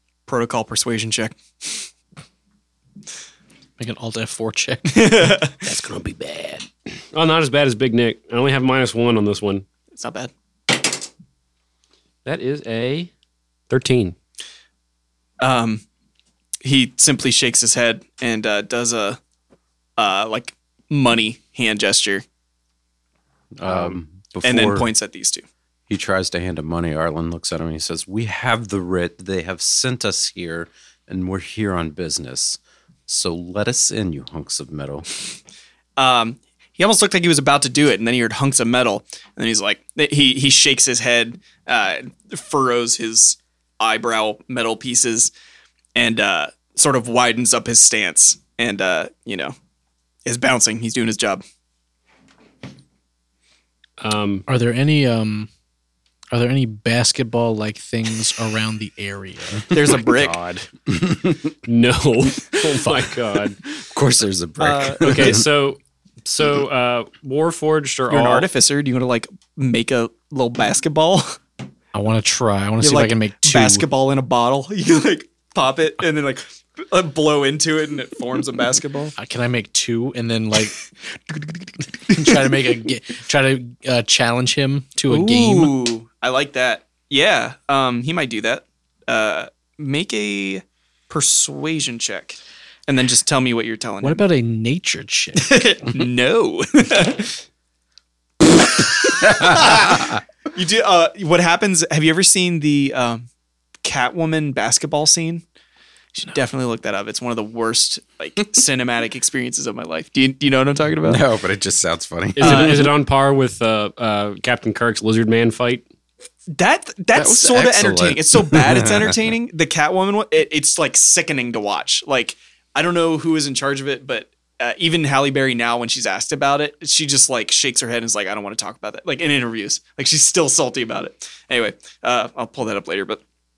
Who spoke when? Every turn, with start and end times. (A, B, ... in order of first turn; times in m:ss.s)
0:00.3-0:01.9 A
0:03.8-0:05.3 B
0:04.9-0:05.5 A
0:05.6-0:09.6 C
0:09.9-0:10.3 A
0:12.2-0:13.1 C
0:13.7-0:14.1 C
0:15.4-0:15.8 A
0:16.6-0:19.2 A
0:20.0-0:22.2 A
0:23.6-0:24.9 D
0:23.6-0:24.0 C
0:24.4-0:25.4 A
0:25.9-0:35.0 D
0:36.0-0:45.3 A
0:45.9-0:49.5 A
0:50.2-0:51.4 A
0:54.0-0:54.4 C
0:54.5-0:55.5 B
0:56.3-0:59.7 B
0:59.7-1:00.3 A
0:59.9-1:00.7 C
1:00.9-1:01.5 D
1:01.6-1:03.6 C
1:03.8-1:05.4 D
1:04.6-1:05.4 A
1:05.0-1:08.5 C
1:08.1-1:11.4 A
1:11.9-1:13.8 B
1:12.8-1:19.1 A
1:19.2-1:20.8 B
1:21.3-1:22.5 A
1:22.1-1:25.7 B
1:25.1-1:34.2 A
1:34.0-1:35.5 B
1:35.4-1:37.4 A
1:38.7-1:43.2 A
1:43.8-1:45.4 A
1:46.2-1:51.2 A
1:51.0-1:52.8 D
1:52.4-1:55.8 C
1:52.4-1:52.9 A
1:56.5-2:13.2 A
1:57.1-1:59.2 D